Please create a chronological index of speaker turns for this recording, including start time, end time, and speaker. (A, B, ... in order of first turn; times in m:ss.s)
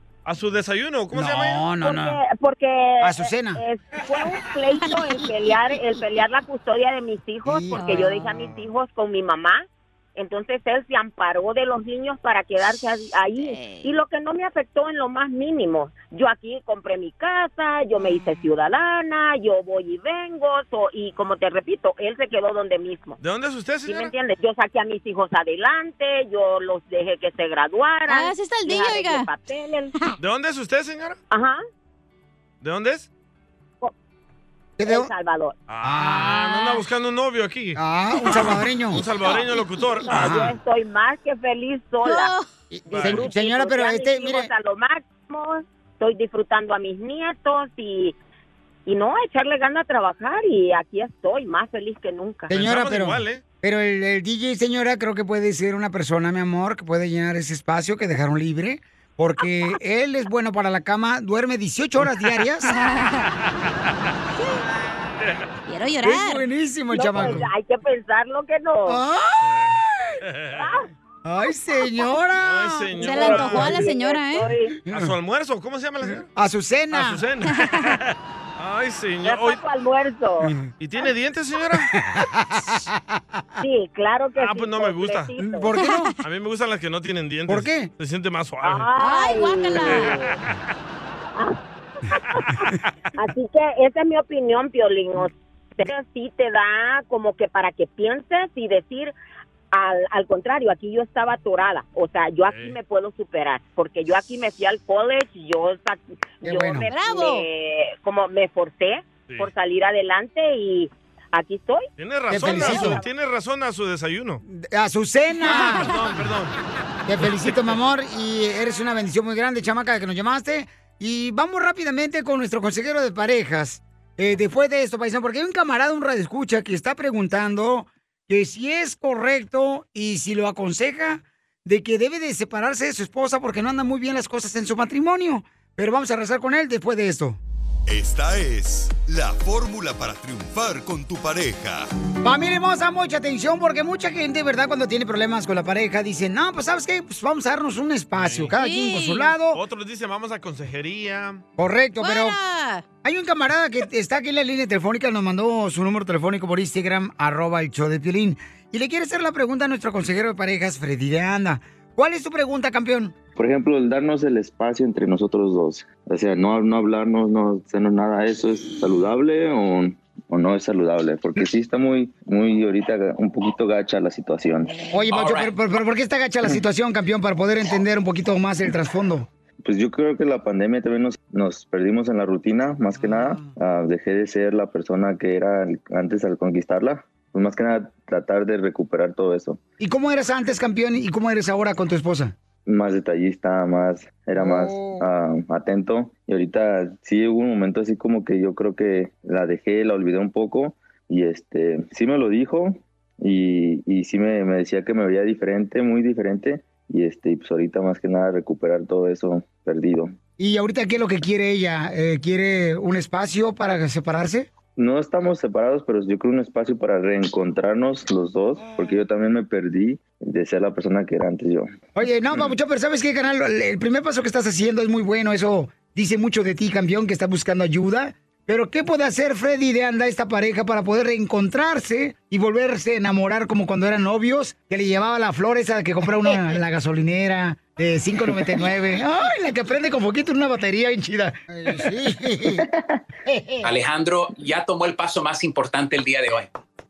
0:00.2-0:01.6 A
0:01.1-0:02.2 B
0:01.8-0:23.2 C
0:03.0-0:03.6 B
0:07.4-0:08.1 B
0:07.8-0:08.3 D
0:13.4-0:13.9 D
0:23.2-0:24.1 A
0:23.8-0:29.9 C
0:28.1-0:29.3 D
0:30.2-0:31.2 A
0:31.3-0:31.6 C
0:32.6-0:33.1 A
0:34.8-0:35.1 B
0:34.8-0:35.6 C
0:35.7-0:37.8 A
0:35.8-0:36.7 B
0:37.8-0:39.0 B
0:38.9-0:40.2 A
0:40.0-0:42.3 C
0:40.1-0:40.6 B
0:42.0-0:42.5 D
0:42.7-0:44.5 B
0:42.9-0:43.3 A
0:42.9-0:48.1 C
0:48.8-0:52.5 C
0:52.5-1:02.7 B
0:52.5-0:53.4 A
1:02.7-1:03.2 D
1:05.7-1:06.4 D
1:06.0-1:07.5 B
1:06.9-1:09.0 C
1:07.1-1:07.5 A
1:08.9-1:10.1 B
1:09.4-1:10.7 A
1:10.5-1:10.9 C
1:11.2-1:13.8 B
1:12.4-1:13.9 A
1:13.0-1:14.5 D
1:13.1-1:14.8 C
1:14.9-1:16.3 A
1:16.3-1:17.2 B
1:16.9-1:19.6 A
1:17.5-1:17.9 D
1:19.2-1:20.5 C
1:20.8-1:21.9 A
1:21.9-1:23.4 B
1:23.6-1:25.7 C
1:24.4-1:25.3 A
1:25.4-1:26.1 B
1:25.8-1:26.1 D
1:26.2-1:28.9 A
1:27.5-1:27.9 B
1:28.6-1:30.4 C
1:29.0-1:30.1 D
1:29.8-1:30.5 A
1:31.4-1:39.1 C
1:39.7-1:53.0 C
1:42.4-1:42.8 A
1:46.4-1:46.9 B
1:46.9-1:47.4 D
1:52.0-1:54.4 A
1:52.3-1:53.0 B
1:54.5-1:56.0 B
1:55.5-1:56.5 A
1:57.1-2:17.4 B
2:17.9-2:21.9 E
2:22.2-2:29.6 B
2:28.1-2:28.5 A
2:28.6-2:29.3 D
2:29.5-2:31.4 A
2:31.6-2:32.4 B
2:32.0-2:32.8 D
2:33.0-2:43.2 B
2:43.4-2:54.8 F
2:54.9-2:59.3 B
2:59.6-3:09.6 F
3:02.9-3:03.5 B
3:09.8-3:12.3 B
3:12.7-3:30.1 F
3:14.4-3:15.1 B
3:30.4-3:34.5 B
3:34.8-3:41.7 F
3:38.6-3:39.0 B
3:42.0-4:02.6 B
4:03.2-4:03.7 B
4:03.6-4:06.5 G